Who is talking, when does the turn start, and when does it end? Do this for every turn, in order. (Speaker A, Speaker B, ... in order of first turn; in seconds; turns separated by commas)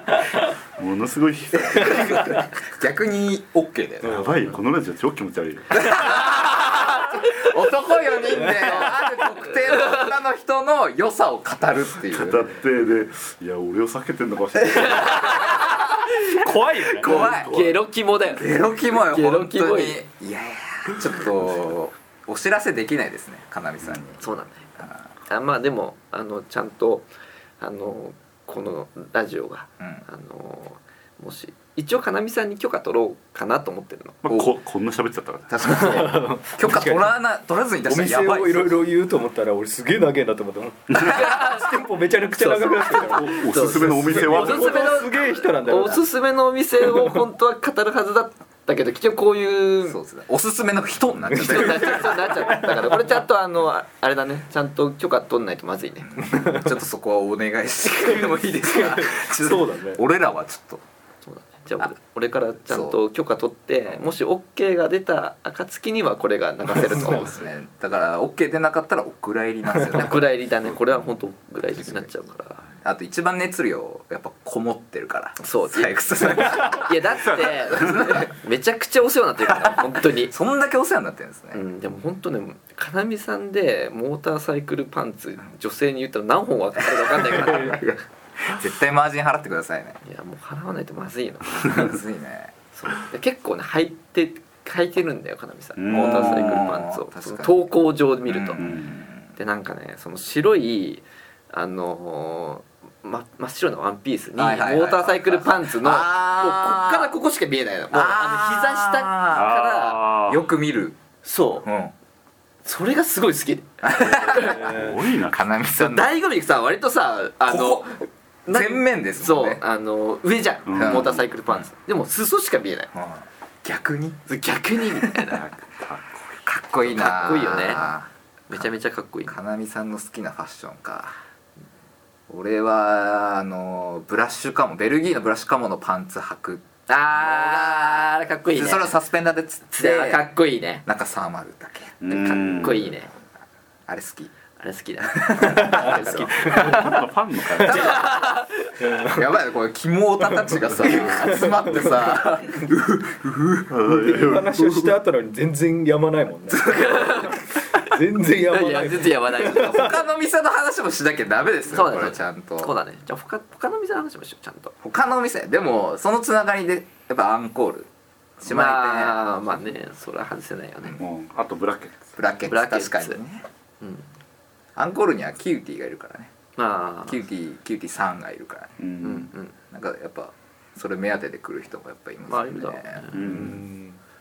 Speaker A: 0.4-2.5, Speaker B: 1.7-4.3, Speaker A: 4.0-6.0, Speaker B: 5.8-12.6, Speaker C: 5.9-7.5, Speaker D: 8.4-8.9, Speaker C: 8.4-10.1, Speaker A: 12.0-15.6, Speaker C: 14.7-20.0, Speaker D: 16.3-17.6, Speaker B: 16.9-17.6, Speaker B: 18.3-24.2, Speaker C: 24.2-24.7, Speaker B: 24.8-25.0, Speaker C: 25.3-27.1, Speaker C: 27.6-34.2, Speaker A: 34.2-36.0, Speaker B: 34.3-34.5, Speaker B: 35.5-38.8, Speaker D: 35.6-37.1, Speaker D: 37.9-46.1, Speaker C: 40.9-50.0, Speaker A: 43.1-45.0, Speaker D: 46.9-47.1, Speaker B: 49.9-52.7, Speaker D: 51.3-53.1, Speaker C: 51.4-56.3, Speaker B: 56.1-60.8, Speaker D: 56.3-56.7, Speaker D: 58.1-60.0, Speaker C: 61.2-67.4, Speaker B: 62.7-63.0, Speaker B: 66.8-70.3, Speaker C: 69.9-72.7, Speaker B: 72.8-78.3, Speaker C: 75.4-80.3, Speaker B: 79.5-81.6, Speaker C: 81.5-88.0, Speaker B: 87.1-90.0, Speaker C: 90.0-92.0, Speaker B: 91.6-92.5, Speaker C: 92.8-98.7, Speaker A: 95.8-96.7, Speaker B: 95.9-97.7, Speaker B: 98.3-99.3, Speaker A: 98.6-98.9, Speaker C: 99.4-110.0, Speaker B: 104.4-107.1, Speaker B: 107.9-111.0, Speaker A: 109.3-110.4, Speaker C: 111.2-111.7, Speaker B: 111.6-111.9, Speaker C: 112.7-114.7, Speaker B: 113.8-116.1, Speaker A: 114.1-115.5, Speaker D: 114.4-115.0, Speaker C: 115.8-122.9, Speaker B: 117.4-119.6, Speaker A: 120.7-121.2, Speaker B: 120.7-121.7, Speaker B: 122.9-124.2, Speaker C: 124.3-125.4, Speaker A: 125.3-127.6, Speaker B: 126.5-128.7, Speaker C: 126.9-127.9, Speaker C: 128.5-129.4, Speaker B: 129.3-131.2, Speaker B: 132.3-140.3, Speaker C: 136.9-139.0, Speaker C: 139.7-140.8, Speaker B: 140.8-143.0, Speaker A: 142.0-142.9, Speaker C: 142.1-143.1, Speaker B: 143.9-144.3, Speaker C: 144.6-146.7, Speaker B: 145.1-146.9, Speaker D: 145.4-146.9, Speaker A: 146.4-148.0, Speaker D: 147.5-147.8, Speaker B: 147.6-148.3, Speaker C: 147.7-148.8, Speaker D: 148.8-149.3, Speaker B: 149.0-153.7, Speaker D: 150.2-152.0, Speaker A: 153.7-155.0, Speaker D: 153.8-159.9, Speaker C: 156.6-160.0, Speaker B: 159.5-162.7, Speaker C: 161.7-164.8, Speaker B: 164.8-169.2, Speaker C: 168.4-171.0, Speaker A: 171.0-172.0, Speaker B: 172.2-173.4, Speaker C: 172.5-173.2, Speaker C: 173.8-174.1, Speaker B: 174.8-176.3, Speaker C: 176.6-177.2, Speaker B: 177.1-178.7, Speaker A: 178.8-179.3, Speaker C: 179.0-179.6, Speaker B: 179.7-183.1, Speaker C: 182.3-183.5, Speaker A: 183.1-183.7, Speaker D: 183.3-184.0